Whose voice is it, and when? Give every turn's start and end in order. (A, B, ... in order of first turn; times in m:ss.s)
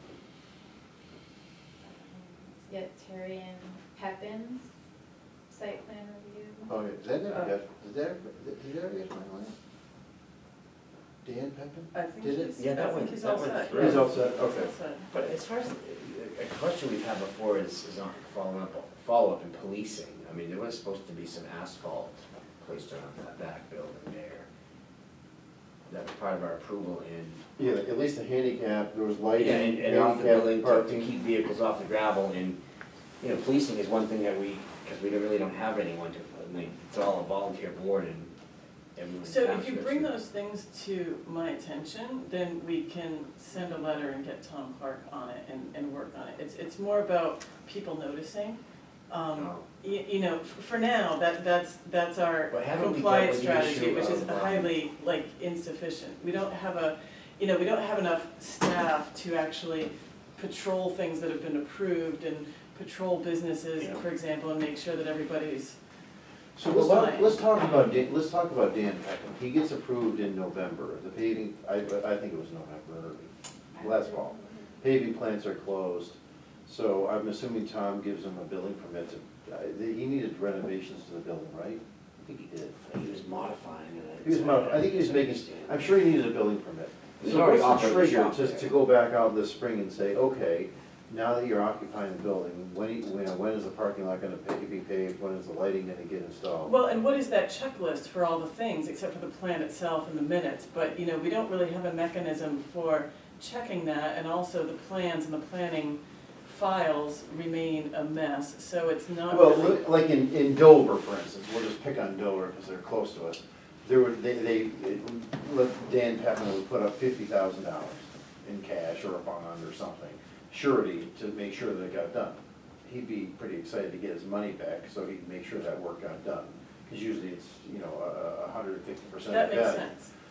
0:01.8-0:04.7 A
0:05.5-0:06.8 A
0:06.7-0:09.5 B
0:11.2-0:12.6 B
0:11.9-0:15.1 C
0:12.6-0:14.1 D
0:13.7-0:14.7 B
0:15.1-0:24.5 D
0:25.9-0:27.4 D
0:27.6-0:31.2 B
0:29.4-0:32.6 D
0:33.2-0:38.3 D
0:39.0-0:40.1 D
0:39.2-1:05.8 C
0:49.4-0:49.6 D
0:52.5-0:54.7 D
1:06.6-1:22.8 B
1:06.7-1:07.5 C
1:13.8-1:14.8 A
1:22.9-1:25.9 D
1:24.2-1:36.8 B
1:27.2-1:28.8 D
1:36.6-1:49.9 C
1:49.3-2:09.9 B
2:09.3-2:10.1 C